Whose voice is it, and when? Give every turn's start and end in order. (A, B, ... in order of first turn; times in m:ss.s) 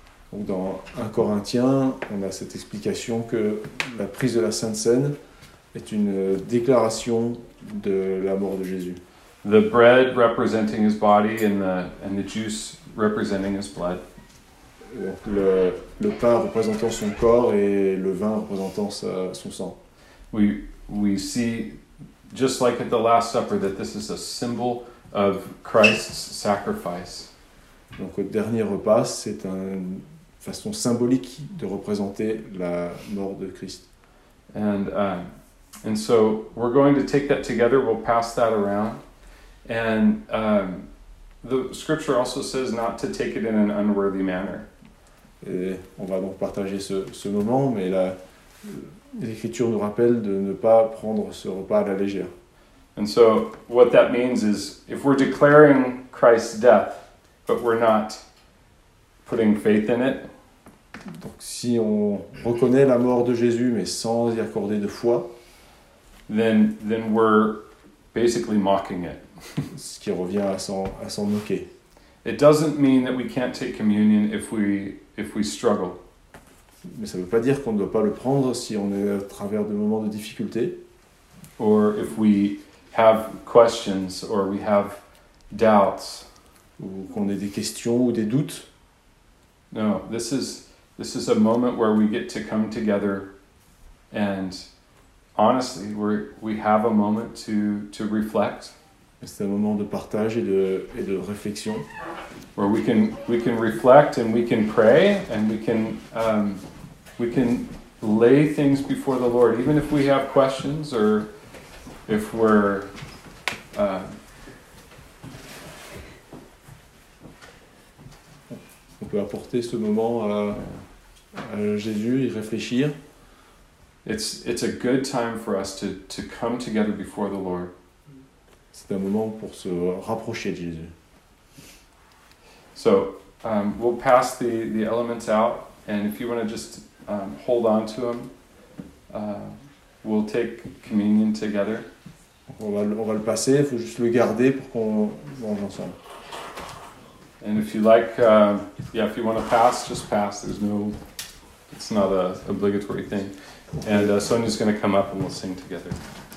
0:00.3-0:05.2 A
0:05.7-0:09.0 A
0:09.4-0:14.0 B
0:14.9-0:19.8 A
0:20.3-0:21.8 B
0:22.3-0:27.3 B
0:28.0-0:33.8 A
0:34.5-0:35.3 B
0:35.8-0:39.0 B
0:39.7-0:40.9 B
0:41.4-0:44.7 B
0:45.4-0:52.3 A
0:53.0-0:58.2 B
0:59.2-1:00.3 B
1:01.1-1:05.3 A
1:06.3-1:09.2 B
1:09.7-1:11.7 A
1:12.2-1:16.0 B
1:16.8-1:20.8 A
1:21.6-1:25.0 B
1:25.5-1:26.2 B
1:26.8-1:28.7 A
1:29.7-1:33.3 B
1:34.1-1:34.7 B
1:35.4-1:38.7 B
1:39.2-1:41.9 A
1:42.6-1:46.6 B
1:47.2-1:51.3 B
1:52.1-1:52.9 B
1:53.7-1:54.1 B
1:58.5-2:00.7 A
2:01.4-2:03.0 A
2:04.0-2:07.7 B
2:08.7-2:10.9 A
2:12.8-2:18.3 B
2:19.1-2:21.9 B
2:22.5-2:26.0 A
2:27.4-2:31.0 B
2:31.7-2:36.0 B
2:33.8-2:34.2 A